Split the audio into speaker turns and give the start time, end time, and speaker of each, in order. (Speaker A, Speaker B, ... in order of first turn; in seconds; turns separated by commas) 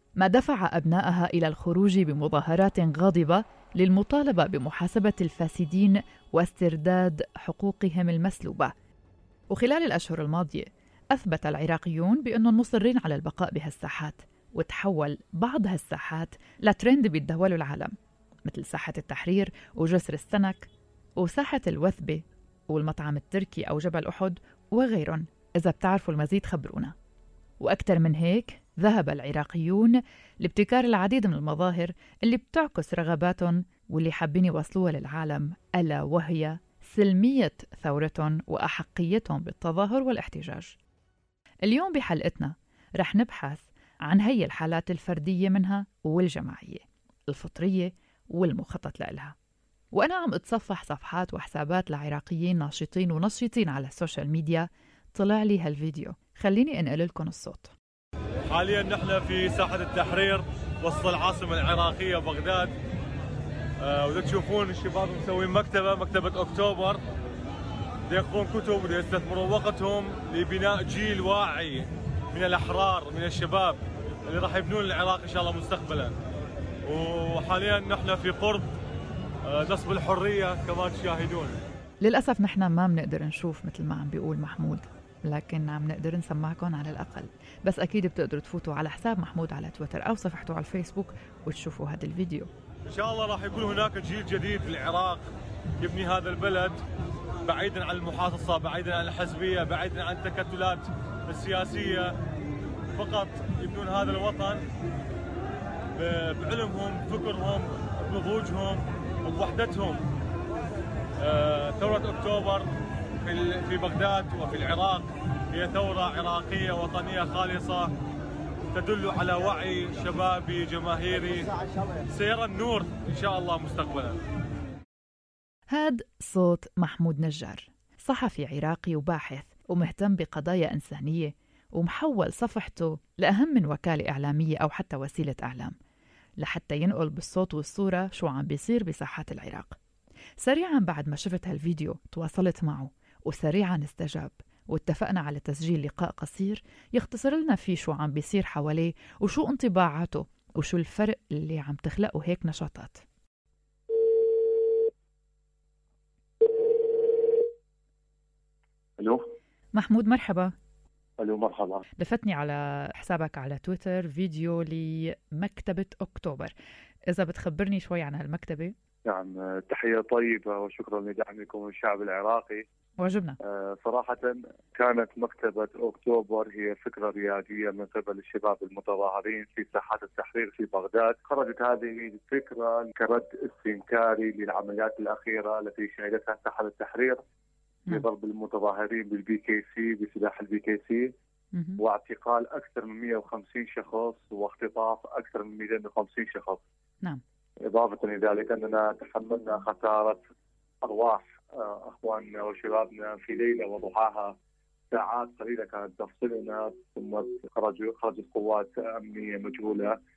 Speaker A: 0.2-8.7, Speaker A: 9.5-17.9, Speaker A: 18.4-26.9, Speaker A: 27.6-40.8, Speaker A: 41.7-49.3, Speaker A: 49.9-57.7, Speaker B: 58.5-62.7, Speaker B: 63.8-67.0, Speaker B: 68.1-76.1, Speaker B: 76.9-78.7, Speaker B: 79.5-81.5, Speaker A: 82.0-92.5, Speaker B: 92.9-95.2, Speaker B: 95.8-96.8, Speaker B: 97.5-102.1, Speaker B: 102.9-104.6, Speaker B: 106.0-110.0, Speaker B: 111.2-112.7, Speaker B: 113.2-117.9, Speaker B: 118.7-121.5, Speaker B: 122.1-124.2, Speaker A: 125.7-135.7, Speaker A: 136.4-139.8, Speaker A: 140.4-153.0, Speaker C: 159.0-159.2, Speaker A: 159.7-160.5, Speaker C: 161.2-161.8, Speaker A: 162.0-166.5, Speaker A: 167.1-168.7, Speaker C: 169.1-172.7, Speaker A: 173.0-173.4, Speaker C: 173.4-187.2, Speaker C: 187.9-191.1, Speaker A: 191.5-191.8, Speaker C: 191.8-196.6, Speaker C: 197.7-200.2, Speaker C: 200.8-204.3, Speaker C: 204.9-210.0